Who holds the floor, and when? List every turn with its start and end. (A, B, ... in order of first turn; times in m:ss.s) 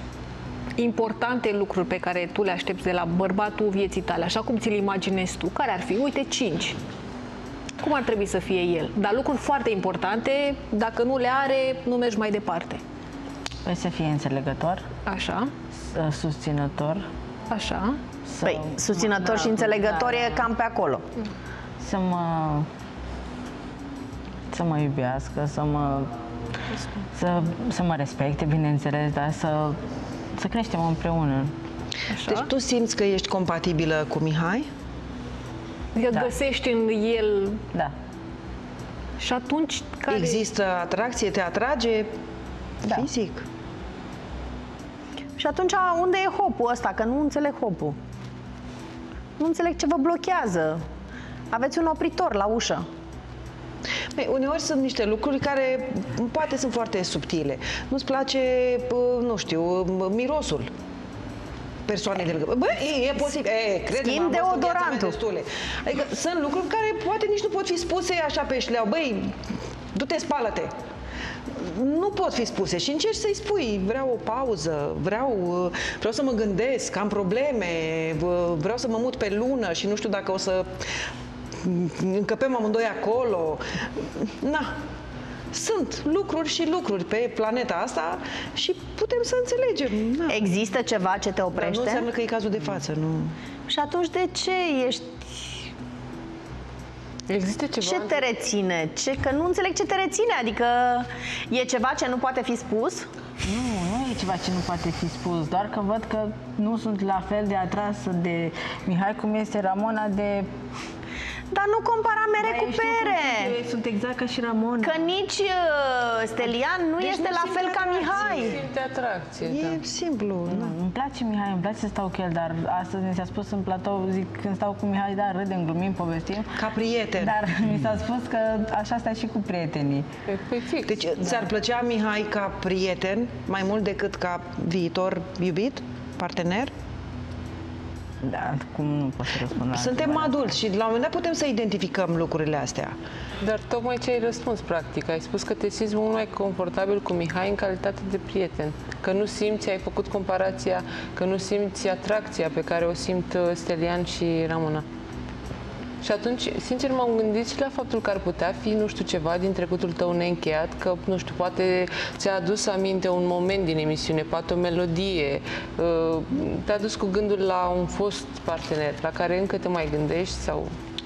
0:00.8-0:06.8 A
0:07.8-0:12.8 A
0:13.6-0:14.8 B
0:15.0-0:15.5 A
0:15.9-0:17.0 B
0:17.5-0:18.0 A
0:18.2-0:20.5 B
0:18.4-0:21.0 C
0:21.8-0:22.7 B
0:24.5-0:26.1 B
0:27.1-0:29.8 B
0:30.3-0:31.5 B
0:32.1-0:32.5 A
0:32.3-0:34.7 D
0:35.9-0:37.6 A
0:36.1-0:36.4 B
0:39.2-0:40.5 A
0:40.1-0:42.1 D
0:42.9-0:43.4 D
0:45.4-0:48.0 C
0:49.4-0:50.8 C
0:51.5-0:52.8 C
0:54.2-1:00.7 D
1:01.9-1:09.3 D
1:03.9-1:05.2 C
1:09.9-1:10.7 D
1:11.6-1:20.6 D
1:21.6-1:23.6 D
1:25.5-1:30.5 D
1:30.3-1:32.1 C
1:31.5-1:33.3 D
1:33.7-1:35.3 C
1:37.3-1:38.0 E
1:37.8-1:43.1 C
1:43.4-1:50.5 B
1:51.5-1:53.5 C
1:52.4-1:55.1 B
1:54.8-1:58.6 C
1:57.0-1:58.5 D
1:58.2-1:59.8 E
1:59.7-2:00.7 D
2:00.5-2:06.5 B
2:06.6-2:07.3 D
2:07.2-2:10.0 B
2:10.3-2:11.0 E
2:11.0-2:16.7 D
2:18.2-2:20.5 B
2:19.7-2:22.9 D
2:23.4-2:34.8 E
2:36.0-2:50.7 E